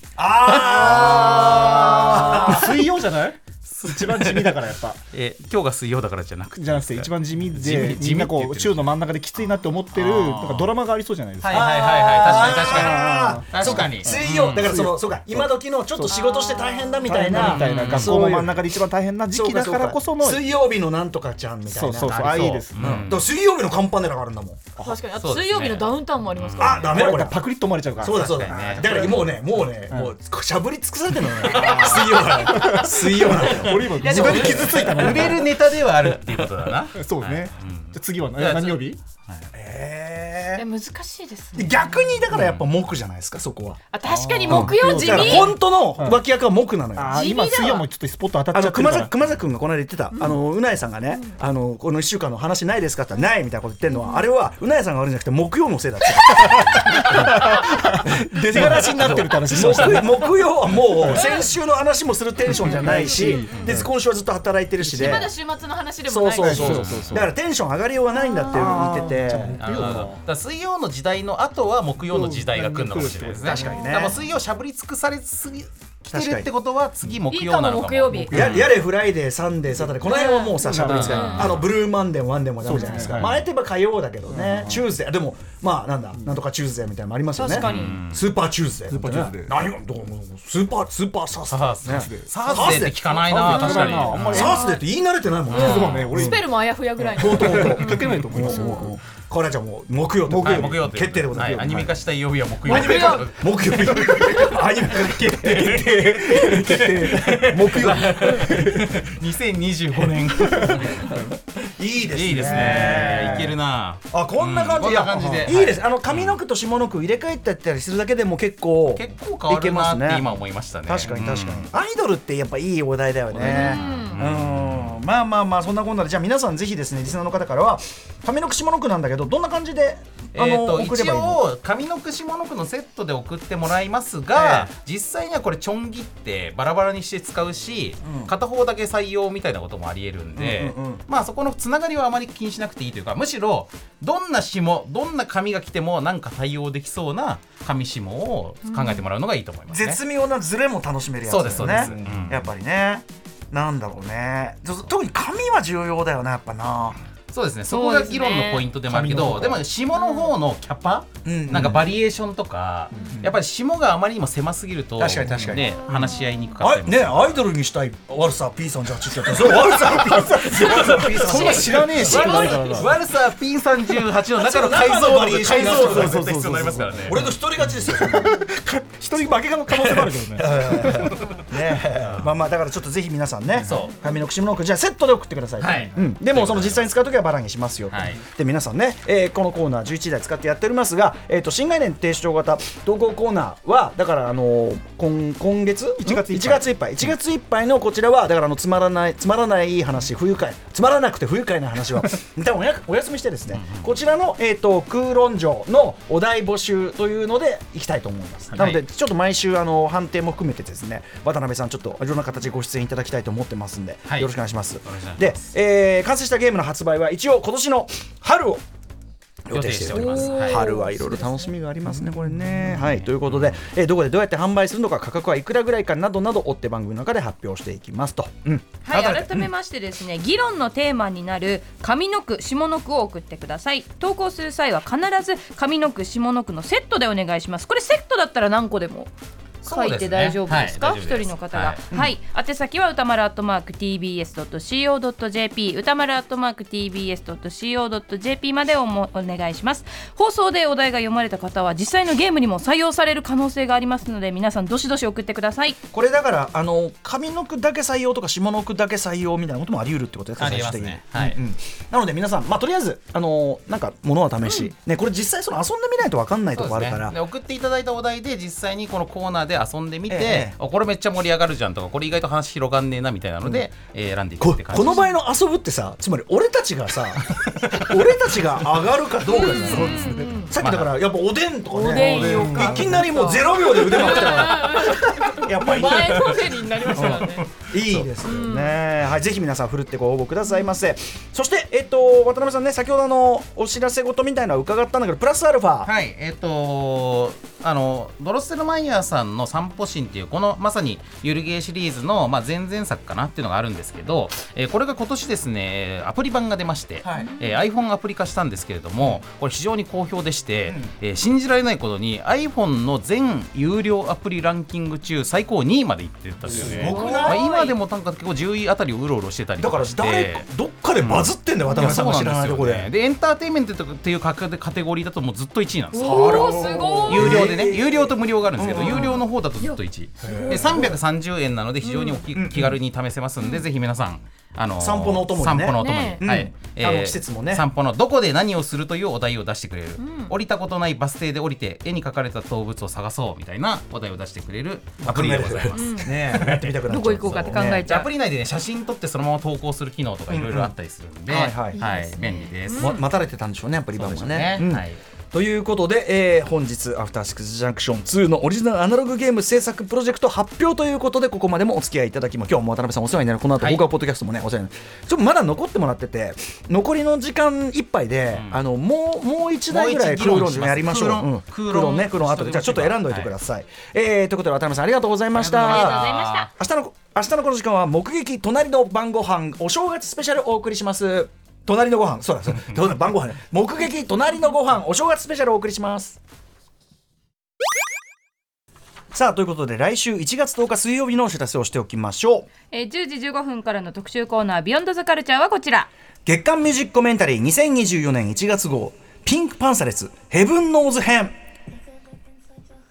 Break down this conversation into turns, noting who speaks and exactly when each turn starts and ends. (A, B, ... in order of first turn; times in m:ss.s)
0:00.2-0:02.8 A
0:00.5-0:02.7 B
0:00.5-0:05.0 C
0:03.6-0:08.9 B
0:06.6-0:16.2 C
0:09.9-0:10.7 B
0:11.4-0:14.8 B
0:11.5-0:18.7 A
0:17.0-0:20.5 C
0:17.3-0:18.3 B
0:19.3-0:24.8 A
0:21.7-0:23.1 C
0:22.2-0:23.2 B
0:24.8-0:26.7 D
0:25.0-0:26.7 E
0:25.1-0:27.1 B
0:26.6-0:27.4 A
0:26.8-0:30.1 C
0:28.0-0:35.4 A
0:28.1-0:29.3 B
0:31.4-0:35.5 C
0:31.6-0:31.9 B
0:33.3-0:39.5 B
0:36.9-0:39.0 C
0:39.5-0:40.6 A
0:40.6-0:41.8 E
0:41.5-0:43.8 A
0:42.3-0:42.7 B
0:43.9-0:45.5 E
0:44.0-0:46.2 C
0:44.5-0:47.3 A
0:46.9-0:49.2 C
0:47.1-0:47.9 E
0:48.5-1:05.4 A
0:56.4-1:01.4 C
0:58.6-1:00.0 B
1:02.5-1:03.9 C
1:03.2-1:03.6 D
1:03.5-1:03.8 B
1:04.8-1:05.3 C
1:05.0-1:06.5 E
1:06.1-1:09.6 A
1:06.3-1:07.3 C
1:06.5-1:07.3 B
1:08.5-1:10.2 C
1:09.6-1:18.8 B
1:12.0-1:13.8 C
1:13.5-1:14.2 A
1:16.1-1:16.5 A
1:17.3-1:18.3 E
1:17.7-1:18.2 D
1:18.1-1:18.8 C
1:18.3-1:36.4 A
1:20.1-1:20.6 E
1:20.6-1:21.6 C
1:20.8-1:21.8 B
1:22.6-1:23.5 C
1:24.3-1:24.9 C
1:27.4-1:27.8 E
1:27.5-1:28.0 D
1:27.5-1:28.2 B
1:28.9-1:29.7 C
1:31.5-1:34.6 B
1:31.8-1:34.7 C
1:35.5-1:36.0 B
1:35.5-1:39.0 C
1:35.5-1:37.9 D
1:36.3-1:37.7 E
1:37.2-1:41.9 A
1:40.2-1:41.9 C
1:40.4-1:51.2 B
1:42.6-1:48.5 A
1:42.7-1:43.3 D
1:45.8-1:49.0 C
1:50.1-1:53.5 A
1:50.4-1:51.4 C
1:52.1-1:56.4 B
1:52.4-1:53.4 C
1:54.1-2:00.3 A
1:55.1-1:55.5 C
1:58.9-2:01.7 B
2:00.9-2:11.4 A
2:03.3-2:05.0 B
2:03.5-2:04.2 E
2:03.6-2:03.9 D
2:10.3-2:30.0 B
2:14.3-2:14.7 A
2:18.0-2:18.3 A
2:20.4-2:21.0 A
2:28.6-2:29.0 E
2:29.7-2:37.0 A
2:31.3-2:32.5 B
2:37.3-2:47.4 B
2:37.7-2:38.7 E
2:38.9-2:39.6 A
2:40.0-2:40.3 E
2:41.2-2:41.9 A
2:43.0-2:43.4 A
2:45.0-2:52.9 A
2:49.3-2:53.0 C
2:50.5-2:57.3 B
2:54.4-2:58.4 A
2:55.4-3:01.2 C
2:59.7-3:38.6 A
3:01.8-3:02.3 B
3:03.6-3:04.0 B
3:05.6-3:06.8 B
3:07.9-3:08.2 B
3:16.0-3:16.6 C
3:23.5-3:23.8 B
3:28.5-3:28.8 B
3:34.9-3:35.4 B
3:39.5-3:49.5 A
3:39.5-3:40.7 B
3:40.0-3:41.2 E
3:42.0-3:42.9 C
3:43.2-3:43.6 B
3:48.8-3:59.1 E
3:59.6-4:01.8 B
3:59.6-4:15.8 E
4:15.9-4:27.1 A
4:20.4-4:21.4 B
4:26.6-4:35.1 B
4:30.1-4:30.5 A
4:34.4-4:55.9 A
4:37.4-4:37.9 B
4:39.4-4:41.0 B
4:39.4-4:40.5 E
4:39.5-4:40.3 D
4:41.8-4:47.5 D
4:41.9-4:42.9 B
4:42.1-4:43.2 C
4:43.0-4:47.4 E
4:45.7-4:48.1 B
4:48.3-4:48.7 D
4:55.8-5:20.5 B
5:07.0-5:07.3 A
5:16.4-5:17.5 A
5:16.8-5:17.7 E
5:19.6-5:22.9 A
5:21.0-5:53.0 B
5:25.9-5:29.2 A
5:26.0-5:27.3 E
5:26.0-5:27.4 D
5:30.2-5:30.6 D
5:30.2-5:31.0 A
5:32.4-5:32.8 A
5:34.8-5:37.6 A
5:35.8-5:36.2 E
5:40.0-5:40.3 E
5:45.0-5:48.0 A
5:45.7-5:46.1 E
5:45.8-5:46.1 D
5:46.9-5:48.1 E
5:47.4-5:47.6 D
5:50.3-5:50.7 A
5:51.3-5:51.8 A
5:51.8-5:53.0 E
5:51.8-5:52.4 D
5:52.7-6:26.2 A
5:54.0-5:55.0 B
6:03.6-6:03.8 B
6:08.3-6:08.6 B
6:09.7-6:13.3 B
6:15.3-6:16.5 B
6:15.5-6:16.5 E
6:29.1-6:32.5 A
6:32.7-6:35.9 E
6:36.3-6:41.4 A